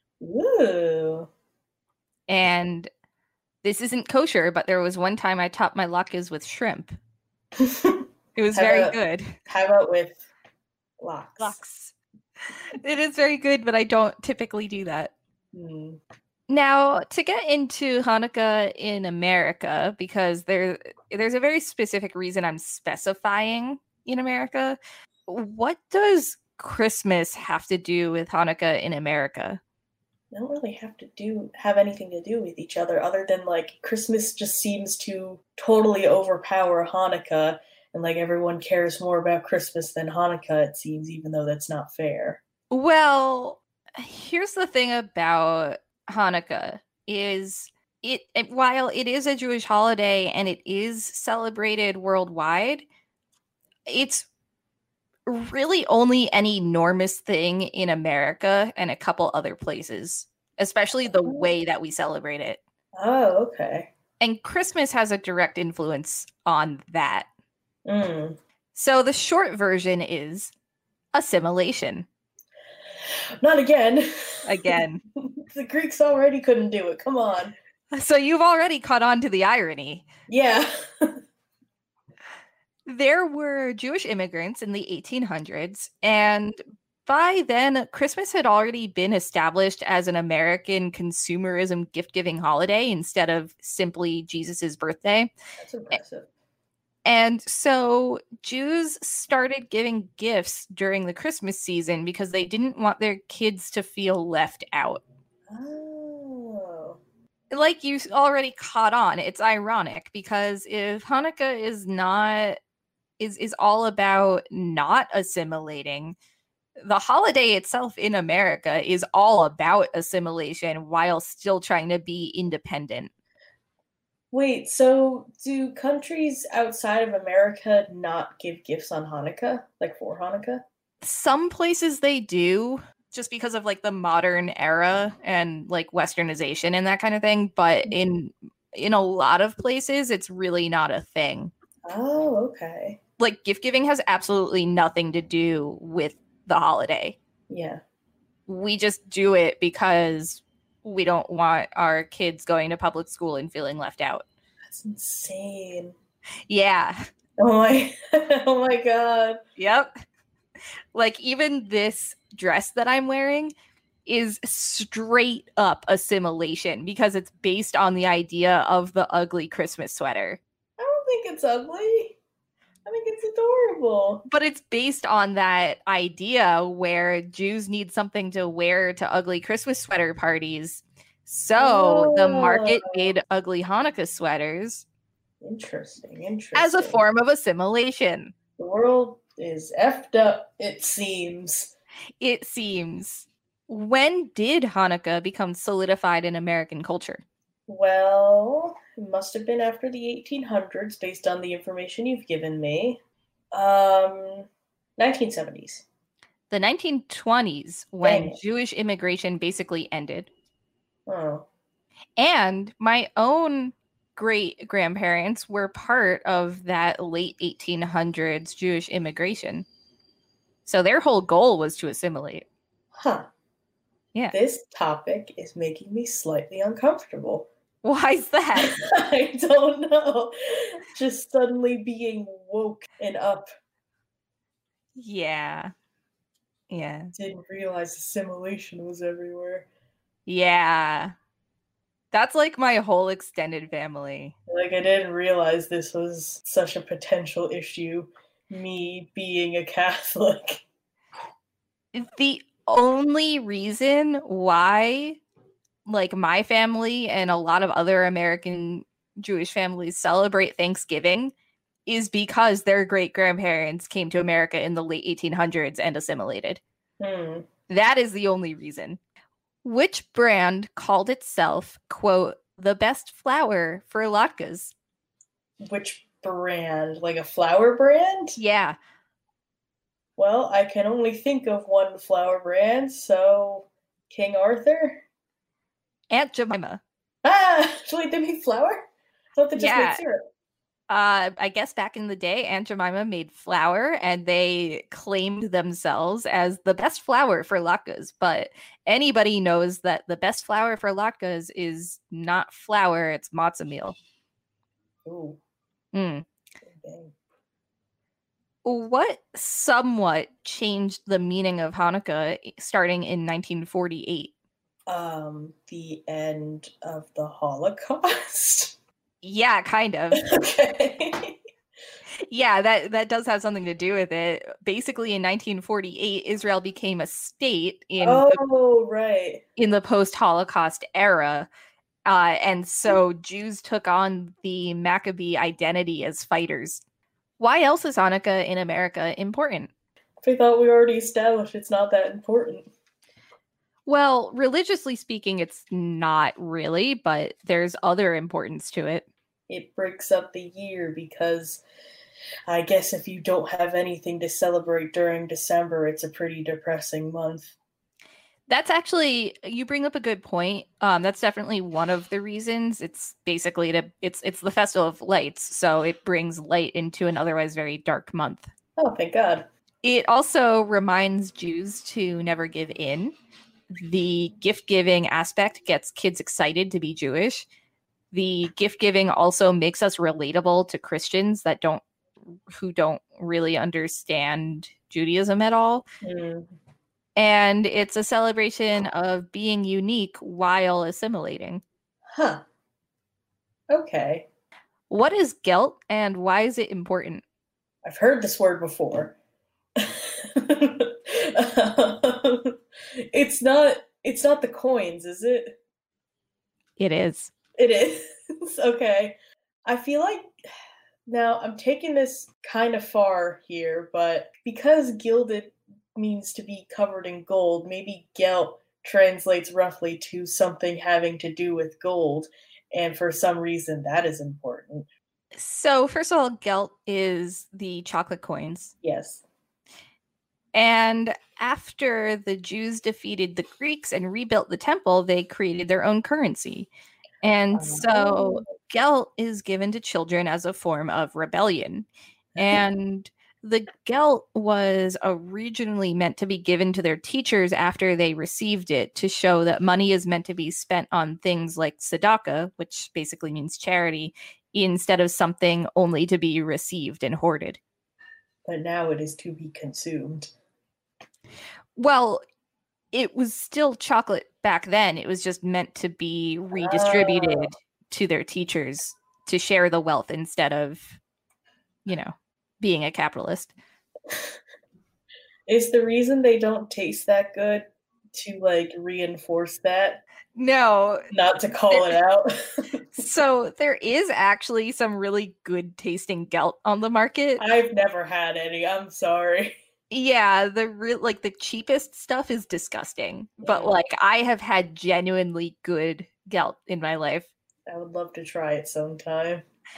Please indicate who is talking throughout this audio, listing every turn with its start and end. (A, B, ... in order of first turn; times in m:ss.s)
0:00.2-0:01.3 A
0:02.3-0:02.9 B
0:03.6-0:07.0 B
0:07.6-0:10.2 A
0:08.4-0:09.3 B
0:11.0-0:11.6 A
0:11.4-0:11.9 B
0:12.7-0:15.1 B
0:15.5-0:16.0 A
0:16.5-0:29.6 B
0:30.3-0:42.4 A
0:42.7-0:52.8 B
0:53.9-0:54.3 B
0:55.2-1:02.6 B
1:03.0-1:03.9 A
1:04.2-1:07.3 B
1:07.8-1:08.4 A
1:08.7-1:10.5 B
1:11.1-1:12.0 B
1:13.4-1:17.5 A
1:14.4-1:15.0 B
1:17.9-1:20.0 B
1:20.3-1:21.2 A
1:22.9-1:35.3 B
1:35.6-1:36.3 A
1:37.0-1:45.0 B
1:45.5-1:47.0 A
1:47.5-1:52.6 B
1:53.2-1:56.2 B
1:56.8-2:03.1 B
2:04.3-2:10.6 A
2:11.0-2:21.5 B
2:21.8-2:23.0 A
2:23.2-2:27.2 B
2:27.5-2:27.8 A
2:28.5-2:34.2 B
2:34.7-2:35.9 A
2:36.5-2:37.0 B
2:37.4-2:39.4 A
2:39.6-2:39.9 B
2:40.9-2:43.5 B
2:44.0-2:50.4 B
2:50.8-2:52.2 A
2:52.8-2:54.2 A
2:54.3-3:04.8 B
3:01.6-3:02.9 A
3:05.4-3:07.0 A
3:06.5-3:08.3 B
3:08.6-3:11.7 A
3:12.2-3:17.2 B
3:17.7-3:23.0 A
3:23.5-3:25.8 A
3:26.5-3:30.3 B
3:28.0-3:28.4 A
3:31.1-3:31.5 A
3:32.2-3:39.6 B
3:40.6-3:42.4 B
3:42.9-3:43.3 A
3:44.3-3:47.5 A
3:47.8-3:48.8 B
3:48.5-3:53.5 A
3:55.0-3:55.7 B
3:56.7-3:57.1 B
3:57.1-3:59.7 A
4:00.3-4:01.1 B
4:02.1-4:04.3 B
4:04.5-4:10.6 A
4:11.9-4:15.2 B
4:15.8-4:21.3 B
4:21.9-4:26.6 B
4:27.0-4:27.5 A
4:27.7-4:29.0 B
4:29.6-4:34.7 B
4:35.6-4:38.4 A
4:38.4-4:38.8 B
4:40.2-4:45.0 A
4:46.1-4:46.8 B
4:47.2-4:50.2 A
4:49.6-4:50.0 B
4:50.9-5:04.0 B
5:05.0-5:05.4 A
5:05.9-5:06.2 B
5:06.6-5:07.1 A
5:08.6-5:14.3 B
5:14.9-5:18.7 A
5:19.2-5:20.2 B
5:20.1-5:21.4 A
5:22.3-5:28.4 B
5:28.0-5:29.4 A
5:29.6-5:31.5 B
5:32.0-5:36.8 B
5:37.4-5:39.7 B
5:40.2-5:42.7 A
5:43.9-5:49.1 B
5:49.5-5:51.6 A
5:52.5-5:57.5 A
5:58.5-6:08.5 B
6:08.8-6:09.5 A
6:09.8-6:13.1 B
6:13.7-6:17.4 B
6:18.1-6:21.8 B
6:22.5-6:25.8 B
6:26.0-6:26.5 A
6:27.2-6:31.6 B
6:32.1-6:32.4 A
6:33.7-6:34.3 A
6:34.9-6:37.2 B
6:37.8-6:39.1 A
6:39.8-6:42.6 A
6:43.1-6:45.6 A
6:46.8-6:47.3 B
6:47.6-6:50.3 A
6:51.0-7:04.9 A
7:05.3-7:08.7 B
7:08.8-7:09.2 A
7:10.5-7:16.7 B
7:17.2-7:21.8 B
7:17.5-7:18.4 A
7:22.4-7:22.6 A
7:22.4-7:37.6 B
7:38.4-7:40.3 A
7:41.8-7:42.2 B
7:42.9-7:51.0 B
7:46.5-7:47.5 A
7:51.8-7:53.5 B
7:55.5-8:00.0 A
8:00.4-8:01.1 B
8:01.1-8:03.0 A
8:01.7-8:02.0 B
8:03.0-8:07.4 B
8:07.4-8:09.6 A
8:09.9-8:17.3 B
8:13.4-8:13.8 A
8:17.7-8:19.4 A